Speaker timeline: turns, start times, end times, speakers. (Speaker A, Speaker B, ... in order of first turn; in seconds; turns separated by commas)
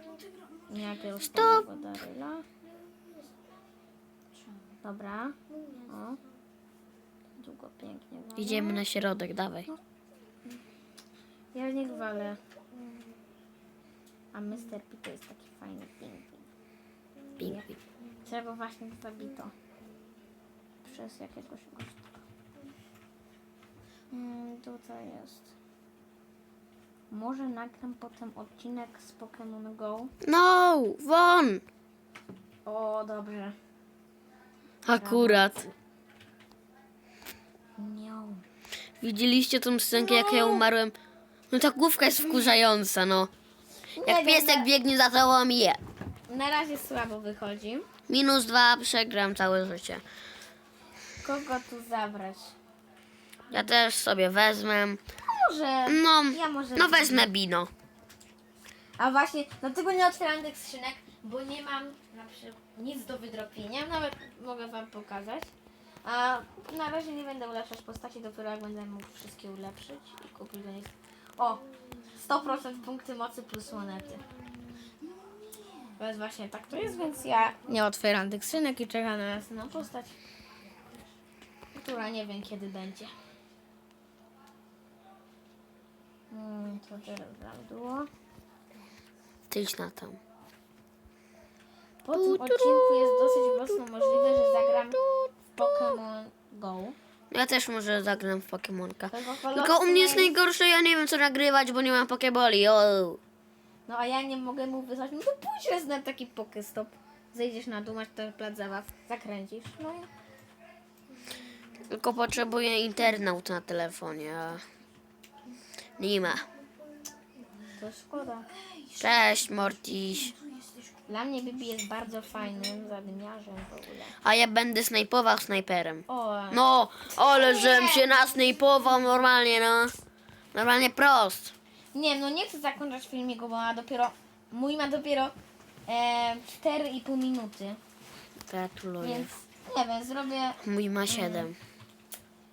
Speaker A: 0.7-2.5, Speaker B: 1.3-1.7, Speaker A: 4.8-6.2, Speaker A: 7.4-8.8, Speaker B: 8.4-9.7, Speaker A: 11.5-12.4, Speaker A: 14.3-16.5, Speaker B: 17.4-17.7, Speaker A: 17.4-17.7, Speaker A: 18.2-19.5, Speaker A: 20.8-22.2, Speaker A: 24.1-25.5, Speaker A: 27.1-30.1, Speaker B: 30.2-31.6, Speaker A: 32.7-33.6, Speaker B: 34.9-35.7, Speaker A: 34.9-35.5, Speaker A: 37.8-38.4, Speaker B: 39.0-41.0, Speaker A: 40.0-40.6, Speaker B: 41.5-43.3, Speaker A: 44.0-44.7, Speaker B: 44.0-45.8, Speaker A: 46.3-47.9, Speaker B: 48.1-50.0, Speaker A: 51.2-52.5, Speaker B: 53.5-55.0, Speaker A: 55.2-57.3, Speaker B: 55.9-57.7, Speaker A: 59.0-65.5, Speaker A: 66.0-74.2, Speaker A: 76.0-80.2, Speaker A: 81.7-83.1, Speaker A: 86.3-88.1, Speaker B: 89.5-90.2, Speaker A: 92.0-95.0, Speaker B: 92.1-96.0, Speaker A: 95.5-97.0, Speaker B: 97.3-103.2, Speaker A: 99.1-100.4, Speaker A: 103.9-110.1, Speaker B: 111.9-114.6, Speaker B: 116.0-116.5, Speaker A: 117.8-118.5, Speaker B: 119.0-120.4, Speaker A: 121.1-124.2, Speaker B: 124.2-129.9, Speaker A: 126.1-126.6, Speaker A: 127.2-128.1, Speaker B: 130.5-131.5, Speaker A: 131.9-135.3, Speaker A: 135.9-137.8, Speaker B: 138.5-139.3, Speaker A: 139.0-141.5, Speaker B: 140.6-141.6